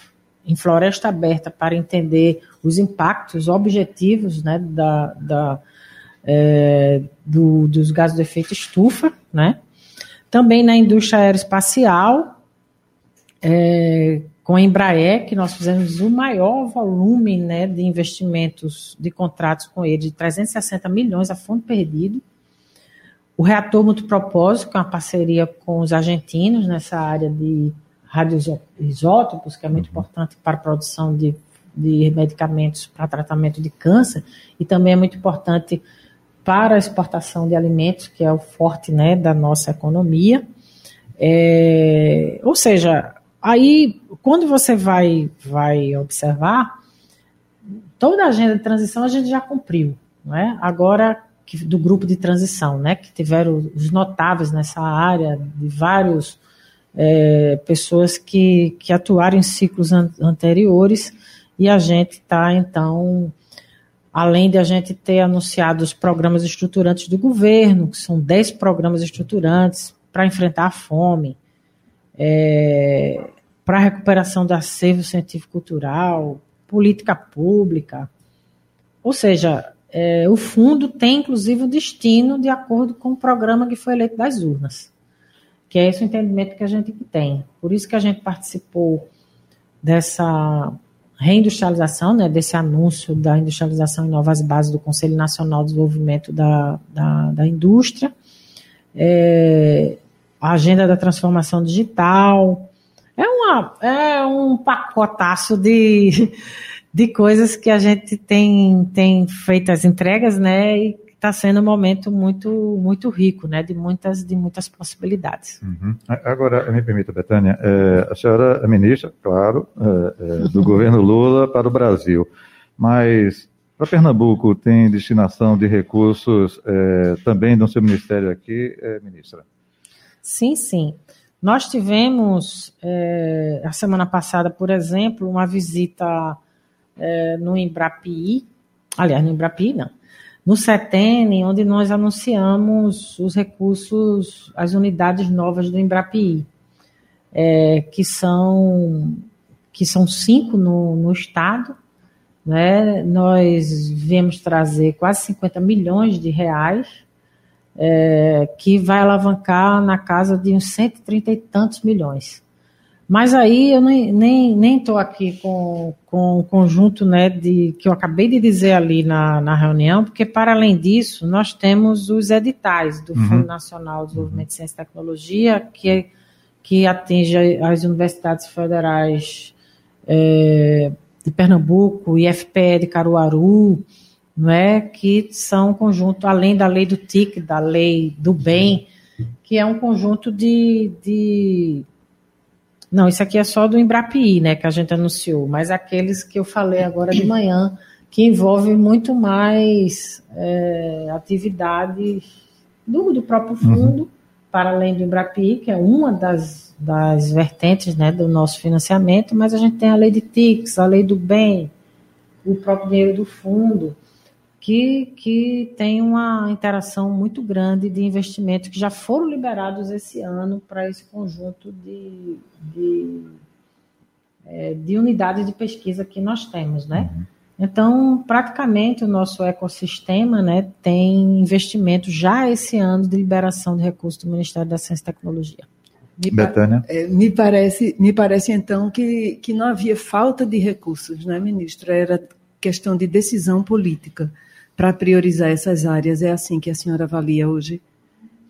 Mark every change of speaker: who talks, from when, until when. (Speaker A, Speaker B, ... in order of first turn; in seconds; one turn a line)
Speaker A: 0.5-5.6
Speaker A: 6.2-9.6
Speaker A: 10.3-12.4
Speaker A: 13.4-22.2
Speaker A: 23.4-35.8
Speaker A: 36.5-40.4
Speaker A: 41.2-46.7
Speaker A: 48.0-56.4
Speaker A: 57.0-63.3
Speaker A: 64.1-71.4
Speaker A: 72.2-78.1
Speaker A: 79.0-84.9
Speaker A: 85.7-89.1
Speaker A: 89.8-98.1
Speaker A: 99.0-106.4
Speaker A: 106.9-115.6
Speaker B: 115.6-122.3
Speaker B: 122.8-129.4
Speaker A: 130.2-136.4
Speaker A: 137.0-138.5
Speaker A: 139.0-139.9
Speaker A: 140.4-146.5
Speaker A: 147.3-151.8
Speaker A: 152.4-156.9
Speaker A: 157.8-162.4
Speaker A: 163.1-176.1
Speaker B: 173.2-173.5
Speaker B: 174.2-174.4
Speaker A: 176.6-179.5
Speaker A: 180.1-183.8
Speaker A: 184.4-188.9
Speaker A: 189.5-191.9
Speaker A: 192.9-202.2
Speaker A: 202.9-211.7
Speaker B: 203.6-203.9
Speaker A: 212.4-214.0
Speaker A: 214.6-223.4
Speaker A: 224.5-235.7
Speaker B: 227.0-227.2
Speaker C: 236.2-247.8
Speaker B: 236.3-236.9